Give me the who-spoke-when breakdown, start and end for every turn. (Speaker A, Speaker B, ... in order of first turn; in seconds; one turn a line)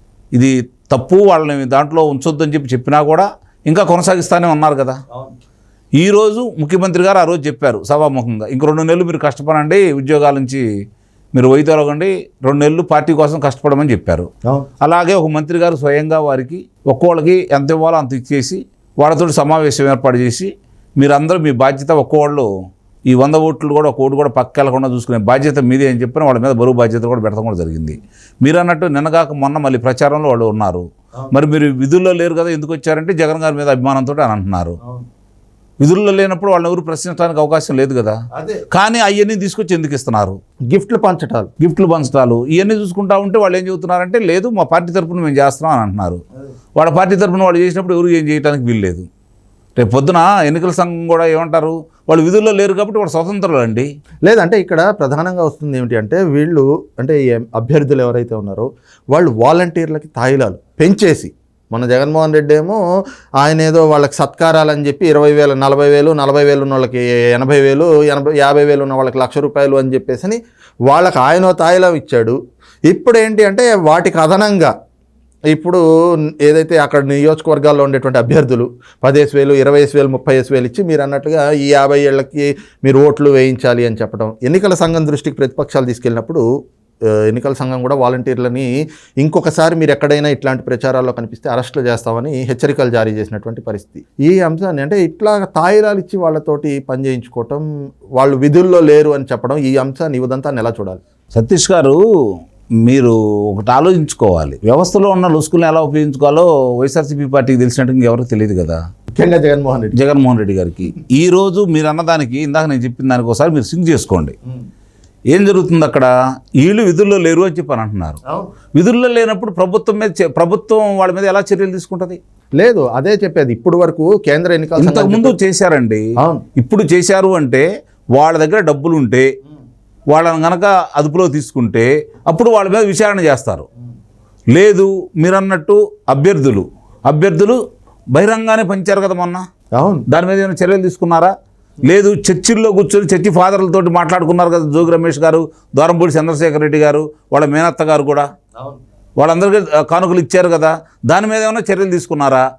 Speaker A: 0.3-5.0
Speaker A: 6.0-10.6
Speaker A: 11.3-14.3
Speaker A: 14.8-22.5
Speaker A: 23.1-34.8
Speaker A: 35.8-38.2
Speaker B: 38.3-38.6
Speaker A: 38.7-40.4
Speaker B: 40.7-41.5
Speaker A: 41.6-46.2
Speaker A: 46.8-49.1
Speaker A: 49.8-53.9
Speaker B: 54.2-62.8
Speaker B: 63.4-72.4
Speaker B: 72.9-74.7
Speaker B: 75.5-75.8
Speaker B: 76.4-86.4
Speaker B: 87.3-88.7
Speaker B: 89.2-97.6
Speaker B: 98.2-101.0
Speaker A: 101.3-102.0
Speaker A: 102.8-108.8
Speaker B: 109.2-109.9
Speaker A: 109.9-114.3
Speaker A: 115.3-118.2
Speaker A: 118.7-122.2
Speaker B: 122.6-125.4
Speaker A: 124.8-126.0
Speaker A: 126.6-127.7
Speaker A: 128.2-129.3
Speaker A: 130.1-133.7
Speaker A: 134.5-137.6
Speaker A: 138.1-139.4
Speaker B: 139.8-140.1
Speaker A: 140.1-141.3
Speaker A: 141.8-148.2
Speaker A: 149.2-152.4